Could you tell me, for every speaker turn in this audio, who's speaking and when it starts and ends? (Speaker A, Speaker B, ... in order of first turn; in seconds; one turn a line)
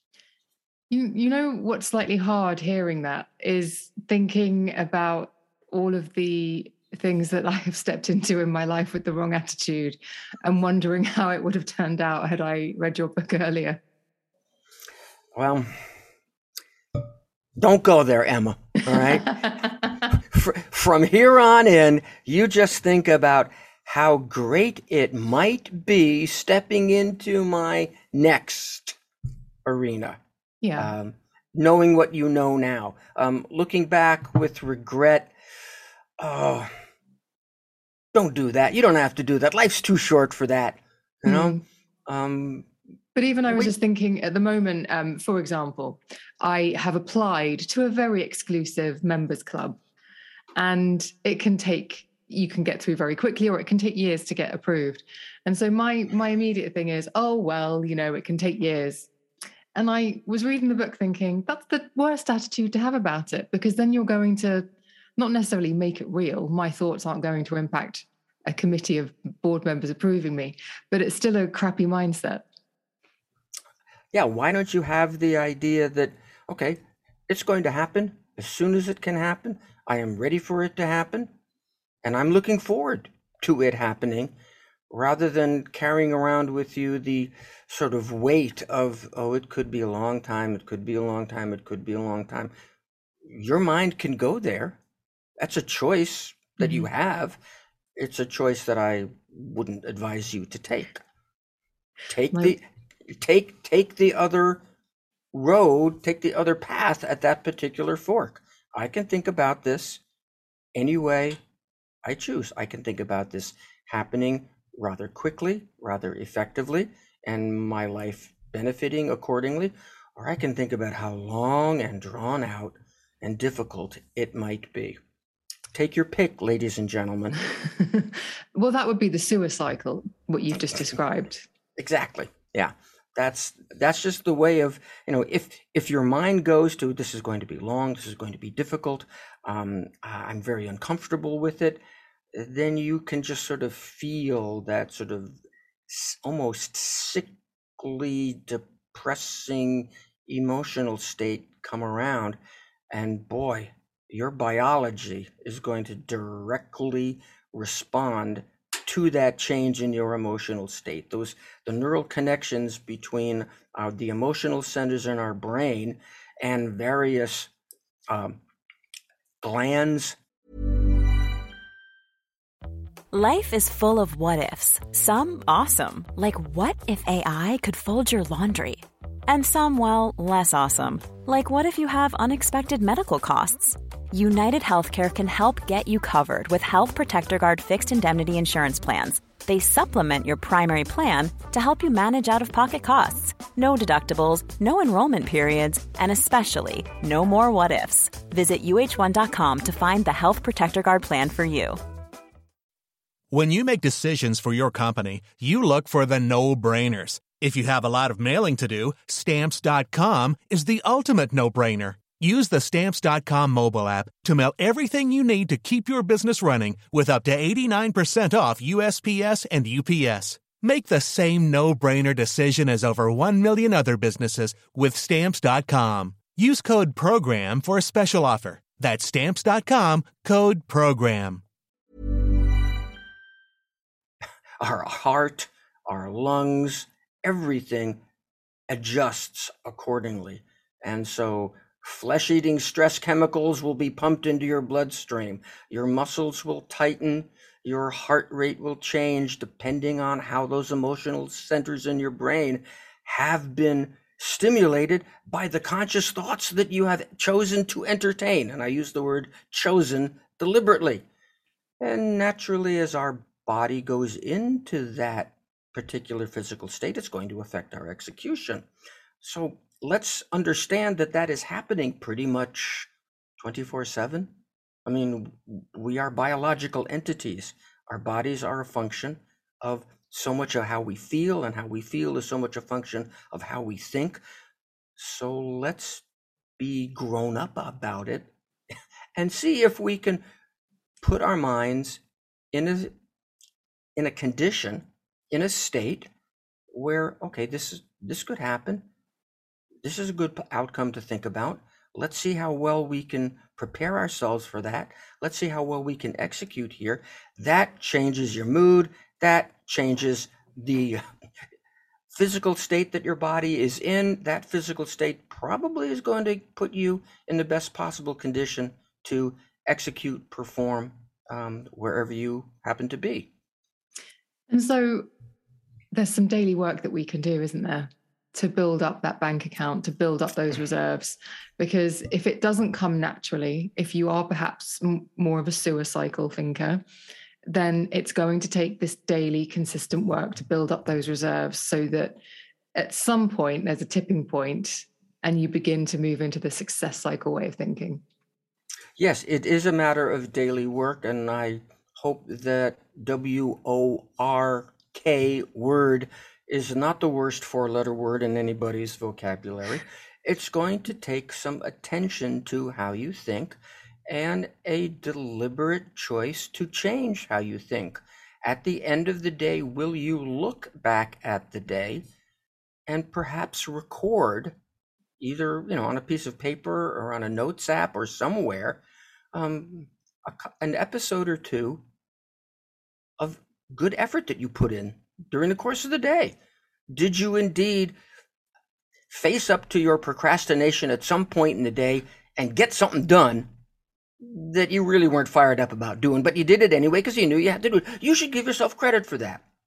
Speaker A: 0.9-13.8
Speaker B: 15.3-15.8
Speaker B: 17.6-29.0
Speaker B: 29.6-30.2
Speaker A: 30.6-30.9
Speaker B: 30.8-35.3
Speaker B: 36.2-36.7
Speaker B: 38.1-42.7
Speaker A: 41.3-41.6
Speaker A: 43.1-49.8
Speaker B: 43.5-43.7
Speaker A: 50.6-59.1
Speaker A: 59.8-72.4
Speaker B: 74.1-81.3
Speaker B: 82.0-84.3
Speaker B: 84.9-92.5
Speaker B: 93.2-94.8
Speaker B: 95.4-97.4
Speaker A: 96.6-96.9
Speaker B: 98.0-101.0
Speaker B: 102.1-104.6
Speaker B: 105.3-110.0
Speaker B: 110.8-111.4
Speaker B: 112.0-125.0
Speaker B: 125.7-127.4
Speaker A: 127.6-131.4
Speaker B: 131.8-141.8
Speaker B: 142.3-152.4
Speaker B: 152.9-167.5
Speaker B: 168.1-168.4
Speaker B: 169.4-170.2
Speaker C: 173.1-201.8
Speaker D: 203.3-231.4
Speaker B: 234.6-238.0
Speaker B: 238.7-261.1
Speaker B: 261.8-268.7
Speaker B: 269.2-274.3
Speaker B: 274.9-284.2
Speaker B: 285.0-286.0
Speaker B: 286.6-288.3
Speaker B: 289.1-290.2
Speaker B: 291.0-292.0
Speaker B: 292.5-292.9
Speaker B: 294.0-296.1
Speaker B: 296.7-298.9
Speaker B: 299.8-311.0
Speaker B: 312.1-323.3
Speaker A: 324.5-325.1
Speaker A: 325.9-336.8
Speaker A: 337.5-342.2
Speaker A: 342.8-348.0
Speaker B: 349.0-372.1
Speaker B: 372.9-374.6
Speaker B: 375.2-378.8
Speaker B: 379.3-381.8
Speaker B: 383.2-386.4
Speaker B: 386.9-388.0
Speaker B: 389.1-393.5
Speaker B: 394.2-399.4